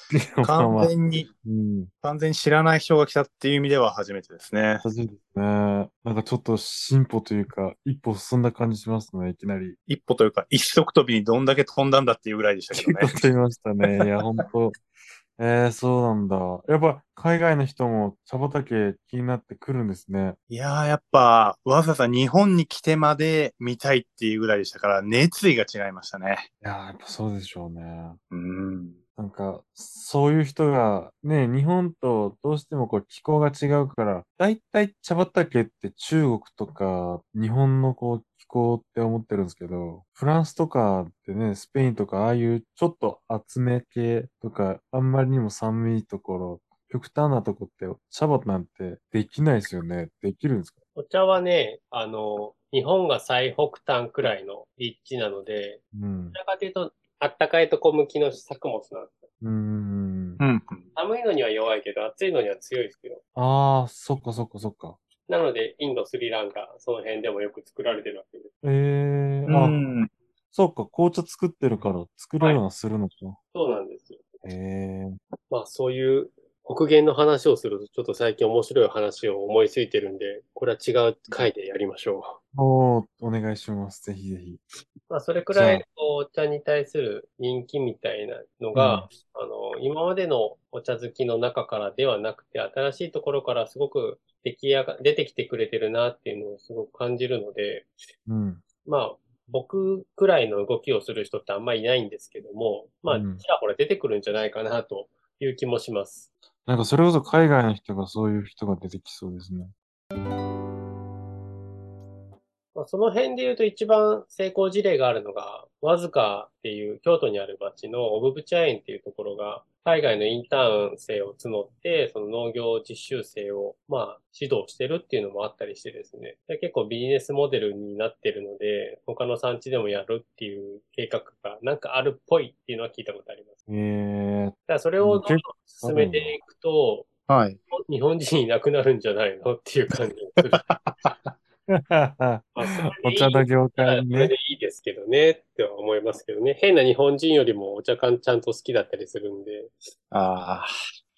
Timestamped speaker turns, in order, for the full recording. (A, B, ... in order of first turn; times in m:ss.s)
0:00.1-0:01.9 A
0:00.4-0:01.3 B
0:02.0-0:04.8 B
0:04.8-0:09.8 A
0:09.9-0:13.2 B
0:12.7-0:14.8 A
0:15.4-0:20.4 A
0:20.5-0:26.5 B
0:26.6-0:28.2 A
0:28.3-0:29.0 B
0:29.2-0:50.8 A
0:51.0-0:55.8 C
0:55.9-0:56.4 A
0:56.3-0:59.3 C
0:59.4-1:00.4 A
1:00.4-1:00.9 B
1:01.0-1:03.2 C
1:03.4-1:05.0 A
1:05.3-1:08.5 C
1:08.6-1:09.8 A
1:09.5-1:10.1 B
1:10.5-1:13.4 A
1:13.5-1:14.2 C
1:14.4-1:15.2 A
1:15.5-1:22.4 C
1:22.5-1:24.6 A
1:25.1-1:37.9 C
1:25.5-1:25.8 A
1:28.8-1:29.1 A
1:38.3-1:38.6 A
1:38.8-1:46.3 C
1:43.1-1:43.4 A
1:46.7-1:49.7 A
1:52.8-2:13.6 C
2:13.7-2:16.4 A
2:14.7-2:17.1 C
2:17.3-2:17.6 B
2:17.7-2:20.6 C
2:20.6-2:21.1 B
2:21.7-2:24.4 A
2:22.6-2:29.8 C
2:30.1-2:30.7 B